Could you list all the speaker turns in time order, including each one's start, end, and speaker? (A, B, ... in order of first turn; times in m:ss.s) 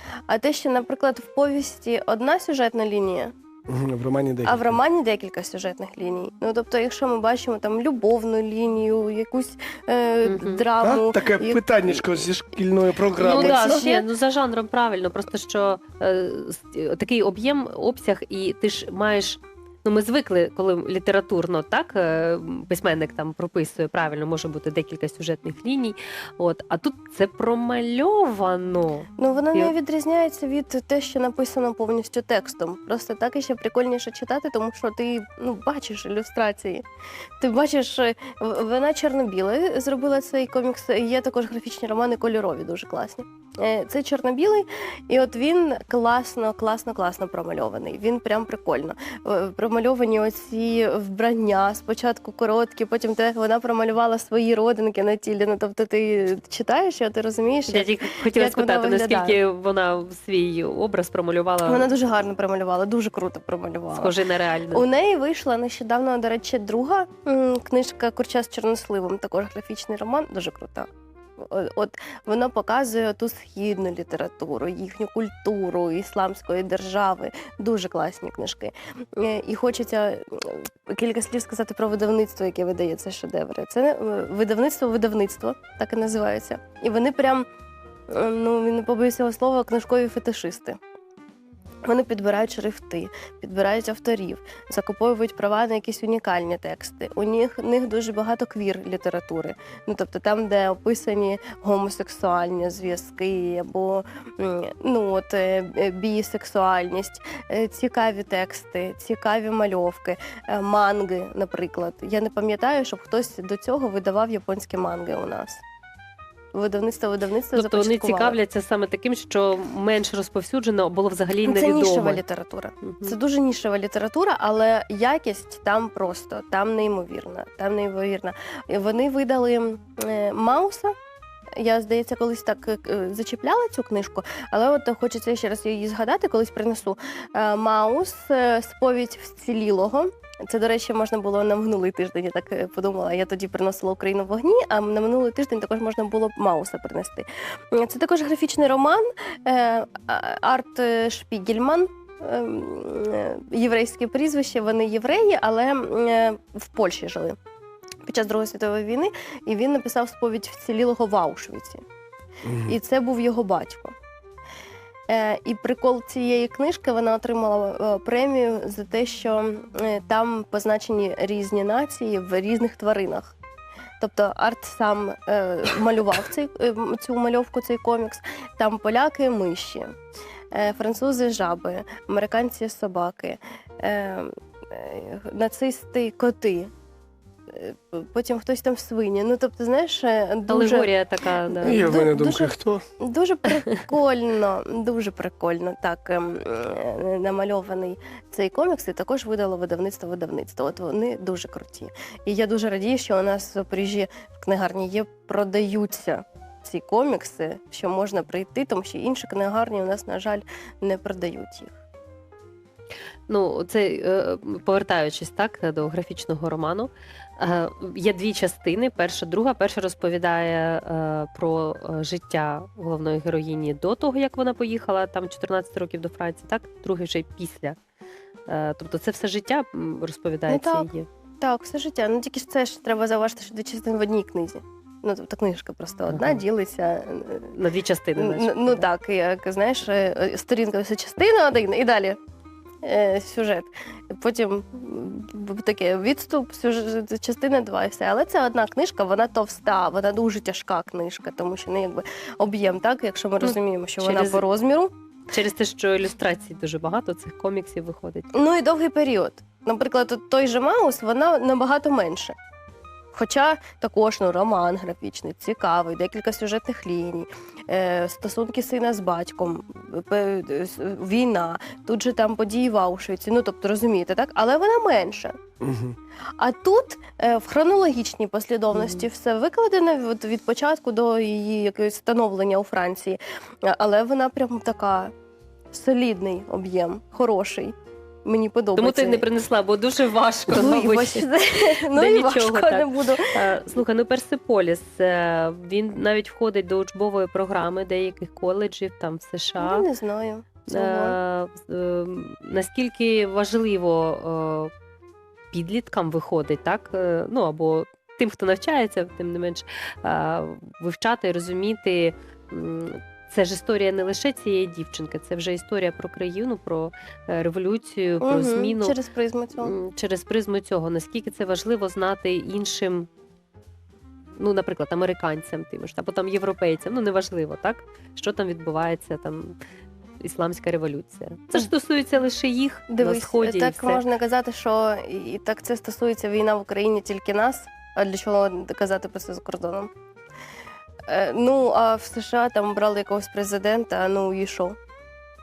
0:00.3-0:03.3 A
0:03.7-0:04.8 B
0:04.4-0:12.3 A
0:10.2-0:10.6 C
0:10.8-0:13.8 B
0:13.2-0:14.0 A
0:13.2-0:29.7 C
0:29.2-0:36.8 A
0:37.4-0:59.4 A
0:57.7-1:01.9 C
1:01.6-1:04.1 A
1:03.9-1:04.8 C
1:04.7-1:27.5 A
1:28.1-1:30.8 A
1:31.8-1:55.6 A
1:56.5-1:58.4 A
1:57.6-2:02.2 C
2:01.4-2:10.9 A
2:02.9-2:03.2 C
2:11.6-2:37.4 A
2:38.0-2:41.8 A
2:42.4-2:42.8 B
2:42.7-2:43.9 A
2:45.1-2:53.3 A
2:54.0-3:00.0 A
3:00.5-3:06.7 A
3:07.5-3:10.9 A
3:10.5-3:12.0 C
3:11.5-3:31.8 A
3:11.6-3:12.8 B
3:33.3-3:47.8 C
3:48.5-3:51.1 C
3:50.5-3:50.9 A
3:51.4-3:57.5 A
3:56.1-3:56.4 C
3:57.5-3:58.8 C
3:58.2-4:02.2 A
4:02.8-4:14.9 A
4:13.4-4:14.4 C
4:15.3-4:18.3 C
4:18.3-4:22.4 A
4:23.1-4:35.4 A
4:35.6-4:36.0 B
4:36.4-4:45.1 A
4:38.7-4:39.0 C
4:45.7-4:49.3 A
4:48.8-4:59.8 C
4:50.5-4:53.4 A
4:59.6-5:01.2 A
5:00.7-5:04.7 C
5:05.5-5:19.0 C
5:18.2-5:19.7 A
5:19.6-5:23.1 C
5:24.4-5:29.6 C
5:30.2-5:34.0 C
5:32.9-5:39.9 A
5:41.1-5:44.8 A